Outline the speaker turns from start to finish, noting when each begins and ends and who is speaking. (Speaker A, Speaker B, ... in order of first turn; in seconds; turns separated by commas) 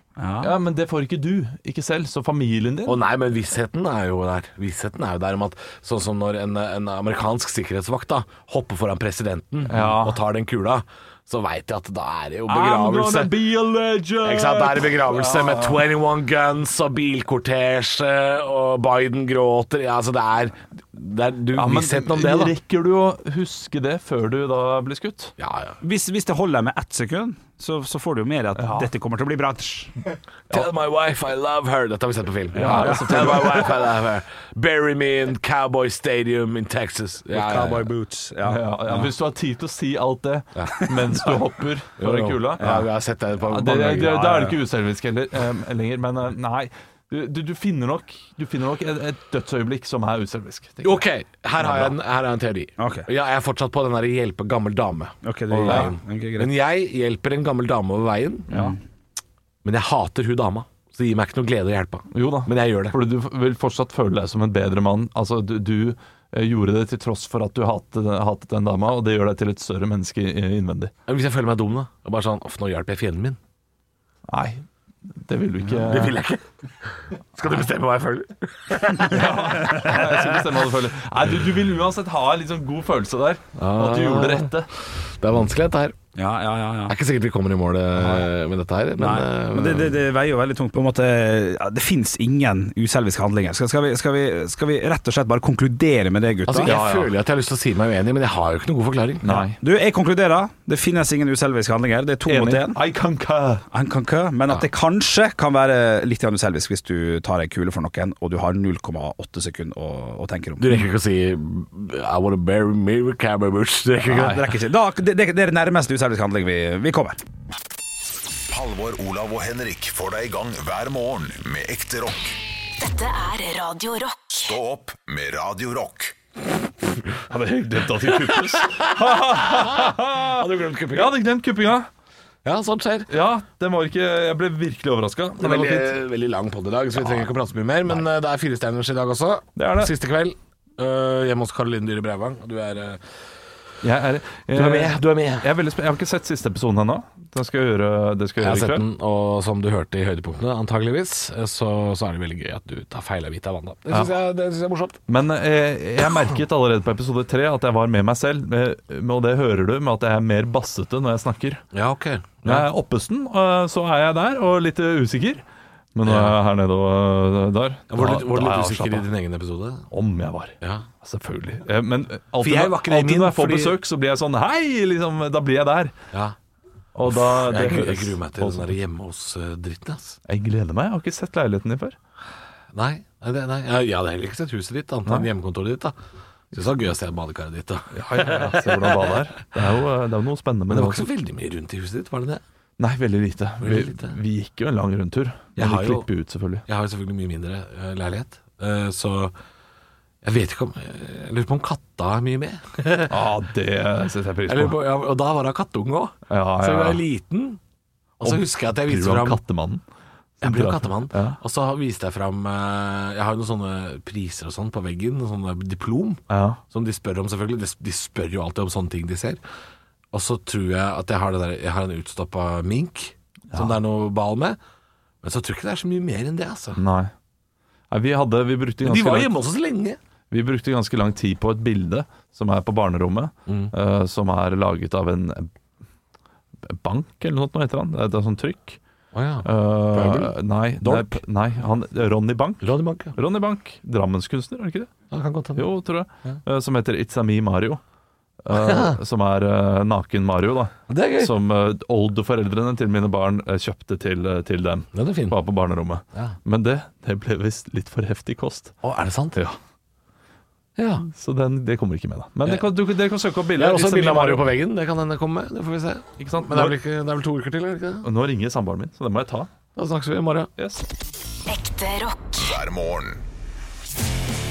Speaker A: 0.2-0.5, Speaker B: 0.4-3.0, Speaker C: 2.9-13.4, Speaker B: 9.7-10.2, Speaker B: 12.5-15.8, Speaker C: 14.2-22.5, Speaker B: 21.5-25.3, Speaker C: 25.4-25.8, Speaker A: 25.8-29.9, Speaker B: 28.6-28.9, Speaker C: 30.5-37.9, Speaker A: 32.5-33.6, Speaker B: 32.5-33.7, Speaker A: 37.3-39.1, Speaker B: 38.4-42.7, Speaker C: 42.0-44.2, Speaker A: 42.6-42.9, Speaker B: 43.5-51.0, Speaker A: 44.0-44.5, Speaker C: 50.8-58.5, Speaker B: 51.6-51.9, Speaker A: 52.8-53.1, Speaker A: 55.2-56.5, Speaker A: 58.5-58.8, Speaker C: 59.6-63.0, Speaker B: 62.1-70.9, Speaker C: 71.1-73.4, Speaker B: 74.3-76.2, Speaker C: 75.8-80.0, Speaker B: 79.1-84.7, Speaker C: 83.5-86.0, Speaker A: 86.2-87.0, Speaker C: 86.9-90.0, Speaker A: 88.0-88.3, Speaker A: 89.0-96.7, Speaker C: 96.5-99.2, Speaker B: 96.6-97.1, Speaker B: 99.2-99.6, Speaker A: 99.3-102.8, Speaker B: 102.2-103.6, Speaker A: 103.7-110.8, Speaker C: 110.6-114.4, Speaker A: 114.1-117.2, Speaker B: 114.1-114.4, Speaker D: 118.5-122.4, Speaker E: 122.8-124.6, Speaker D: 124.4-126.2, Speaker B: 127.3-131.9, Speaker C: 128.1-131.1, Speaker C: 132.4-133.1, Speaker B: 133.1-136.0, Speaker C: 135.4-143.2, Speaker B: 139.6-139.9, Speaker B: 143.8-148.8, Speaker C: 144.5-145.5, Speaker C: 148.4-155.0, Speaker B: 155.1-161.6, Speaker C: 161.7-162.7, Speaker B: 162.4-165.4, Speaker B: 165.9-169.0, Speaker C: 166.0-166.3, Speaker C: 167.9-169.9, Speaker B: 169.9-175.9, Speaker C: 170.6-170.8, Speaker C: 172.4-173.8, Speaker B: 176.9-178.8, Speaker C: 177.1-180.2, Speaker B: 180.3-181.9, Speaker C: 182.7-185.9, Speaker C: 186.5-189.2, Speaker B: 187.9-191.1, Speaker C: 190.7-192.4, Speaker B: 192.8-196.6, Speaker C: 193.6-194.1, Speaker C: 195.6-196.1, Speaker C: 196.7-199.3, Speaker C: 200.2-203.2, Speaker B: 203.1-204.8, Speaker C: 204.5-207.6, Speaker B: 206.3-207.0, Speaker C: 208.2-209.4, Speaker B: 208.2-209.8, Speaker C: 210.4-219.4, Speaker B: 210.4-211.4, Speaker B: 216.3-216.6, Speaker C: 220.1-224.6, Speaker C: 225.2-226.8, Speaker B: 226.8-227.1, Speaker B: 227.9-229.3, Speaker C: 228.8-230.0, Speaker B: 230.3-235.5, Speaker C: 233.4-233.7, Speaker B: 236.6-238.8, Speaker C: 239.1-241.2, Speaker B: 239.4-244.9, Speaker C: 242.6-243.1, Speaker C: 245.1-245.7, Speaker B: 245.6-247.8, Speaker B: 248.4-258.7, Speaker C: 248.5-249.0, Speaker C: 250.9-251.3, Speaker C: 254.9-255.4, Speaker C: 258.8-259.4, Speaker C: 260.8-261.0, Speaker B: 261.0-264.5, Speaker C: 263.5-268.1, Speaker B: 266.2-266.8, Speaker B: 268.0-269.5, Speaker C: 269.8-270.5, Speaker B: 270.6-270.8, Speaker E: 271.5-272.5, Speaker D: 272.4-273.2